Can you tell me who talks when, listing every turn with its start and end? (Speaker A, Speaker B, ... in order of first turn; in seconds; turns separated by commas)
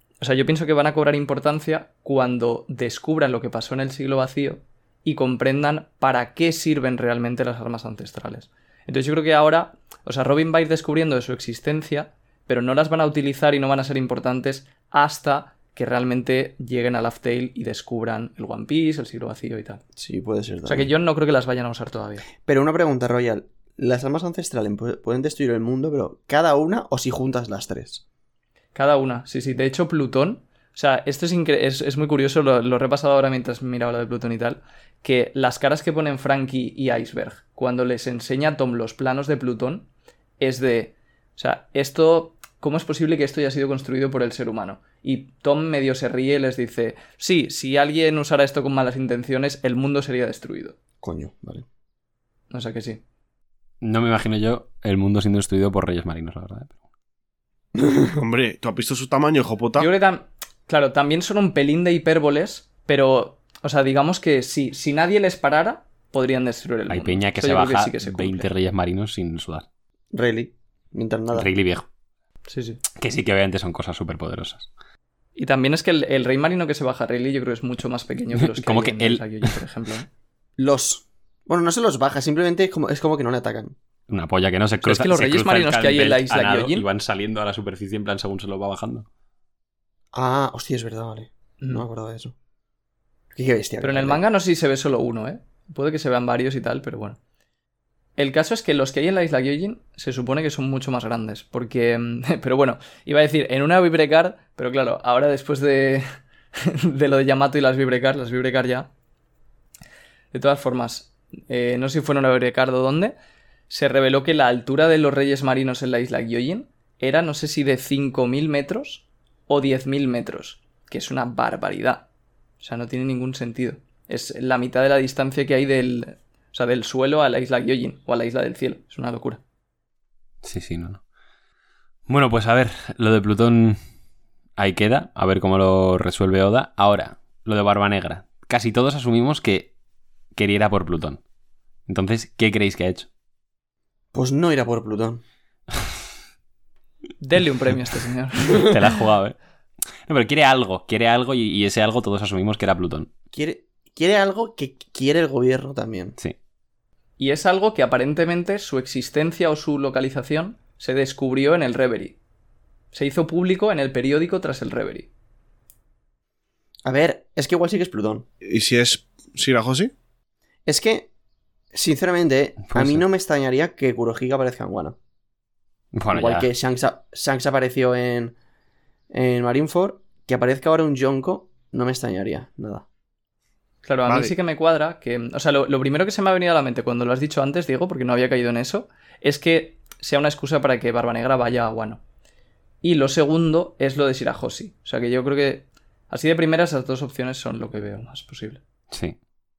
Speaker A: 0.2-19.8, Speaker B: 19.9-20.9, Speaker A: 20.7-22.2, Speaker B: 22.4-28.0, Speaker A: 28.7-39.9, Speaker A: 40.4-50.8, Speaker B: 51.0-51.6, Speaker A: 52.5-53.0, Speaker C: 53.8-56.7, Speaker B: 57.8-58.1, Speaker D: 58.1-59.9, Speaker A: 59.8-68.5, Speaker C: 66.9-69.7, Speaker B: 70.1-71.5, Speaker C: 71.3-71.8, Speaker A: 72.5-72.8, Speaker C: 73.0-74.7, Speaker A: 75.3-80.1, Speaker C: 78.4-79.5, Speaker B: 80.6-83.8, Speaker C: 84.1-89.0, Speaker A: 84.8-86.8, Speaker B: 90.1-92.3, Speaker B: 93.3-94.2, Speaker A: 93.8-97.2, Speaker A: 98.2-106.0, Speaker A: 106.6-108.9, Speaker A: 110.3-113.1, Speaker A: 113.7-122.0, Speaker A: 122.6-129.4, Speaker C: 130.4-131.0, Speaker C: 132.1-133.8, Speaker C: 134.6-139.7, Speaker C: 140.3-141.2, Speaker C: 141.9-143.1, Speaker B: 144.1-145.2, Speaker A: 147.2-148.8, Speaker C: 148.5-149.3, Speaker C: 150.1-153.1, Speaker B: 153.3-156.2, Speaker A: 157.2-162.2, Speaker A: 162.9-165.1, Speaker B: 166.8-168.2, Speaker D: 168.4-169.9, Speaker B: 170.7-171.1, Speaker B: 171.7-174.9, Speaker C: 172.7-173.0, Speaker C: 175.9-176.5, Speaker B: 176.1-178.3, Speaker B: 179.1-182.8, Speaker A: 183.8-192.0, Speaker D: 184.1-184.3, Speaker A: 192.8-198.6, Speaker C: 198.9-199.2